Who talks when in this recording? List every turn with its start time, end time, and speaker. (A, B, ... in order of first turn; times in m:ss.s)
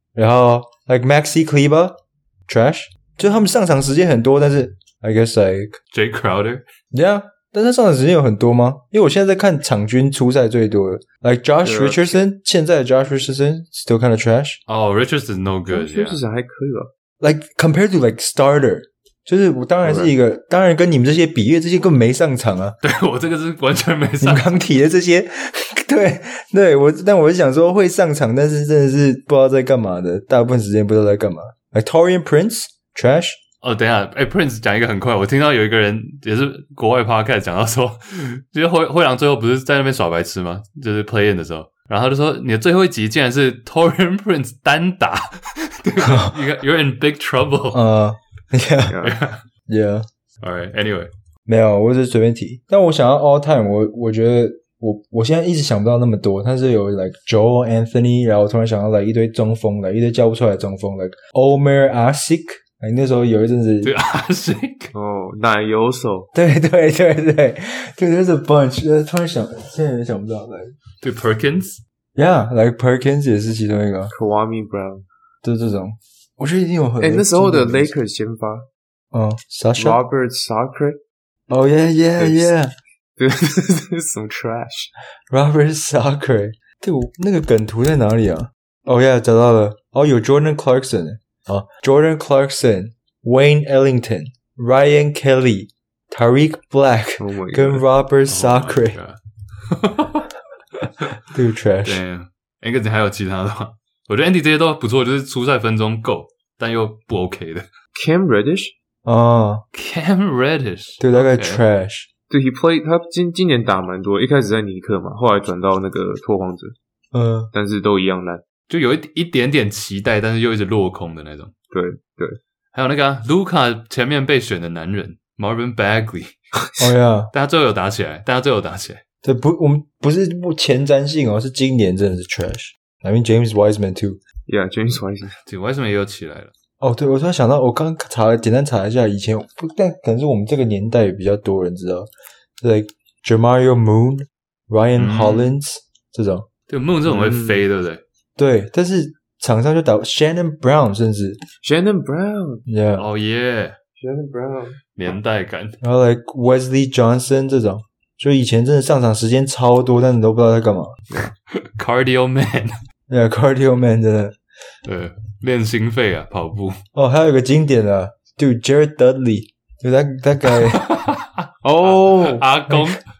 0:00.2-0:05.8 A
0:05.9-0:06.6 B
0:06.9-0:14.6 A
0:11.6-0:12.2 C
0:14.7-0:16.2 B
0:15.7-0:16.9 C
0:17.2-0:22.8 A
0:19.8-0:20.1 C
0:22.8-0:24.5 B
0:24.2-0:33.4 A
0:33.6-0:47.8 B
0:46.0-0:46.4 A
0:47.7-0:49.0 A
0:48.9-0:49.2 C
0:49.0-0:49.4 B
0:49.7-0:50.0 A
0:50.4-0:51.1 B
0:51.5-1:03.9 A
1:03.8-1:04.9 B
1:05.0-1:06.3 C
1:06.3-1:10.7 A
1:11.0-1:11.8 B
1:12.2-1:14.1 A
1:14.1-1:15.1 C
1:15.4-1:18.0 A
1:17.0-1:18.7 C
1:19.1-1:20.0 A
1:19.8-1:21.0 C
1:21.5-1:22.7 A
1:22.2-1:22.5 C
1:23.2-1:24.9 C
1:25.3-1:39.0 A
1:37.2-1:37.8 C
1:38.3-1:40.3 B
1:41.3-1:42.0 A
1:41.8-1:47.7 B
1:47.9-1:48.7 C
1:49.1-1:49.6 A
1:49.7-1:51.6 B
1:51.0-1:52.1 A
1:52.3-1:56.8 C
1:57.1-1:57.5 A
1:57.5-1:58.4 C
1:58.7-2:01.5 B
2:01.7-2:02.4 C
2:02.7-2:06.3 B
2:06.8-2:07.3 A
2:07.3-2:09.0 B
2:09.2-2:14.2 A
2:14.5-2:15.4 C
2:15.4-2:16.5 B
2:16.8-2:22.1 A
2:22.6-2:26.5 A
2:24.9-2:25.5 B
2:26.7-2:28.0 B
2:27.2-2:27.6 C
2:28.4-2:31.4 A
2:31.6-2:32.7 C
2:32.7-2:33.1 A
2:33.0-2:33.8 B
2:34.0-2:34.8 C
2:35.0-2:35.8 B
2:35.8-2:40.9 A
2:41.5-2:42.8 B
2:43.1-2:44.4 A
2:44.8-2:46.8 B
2:47.0-2:50.8 A
2:50.7-2:53.1 B
2:51.7-2:52.4 C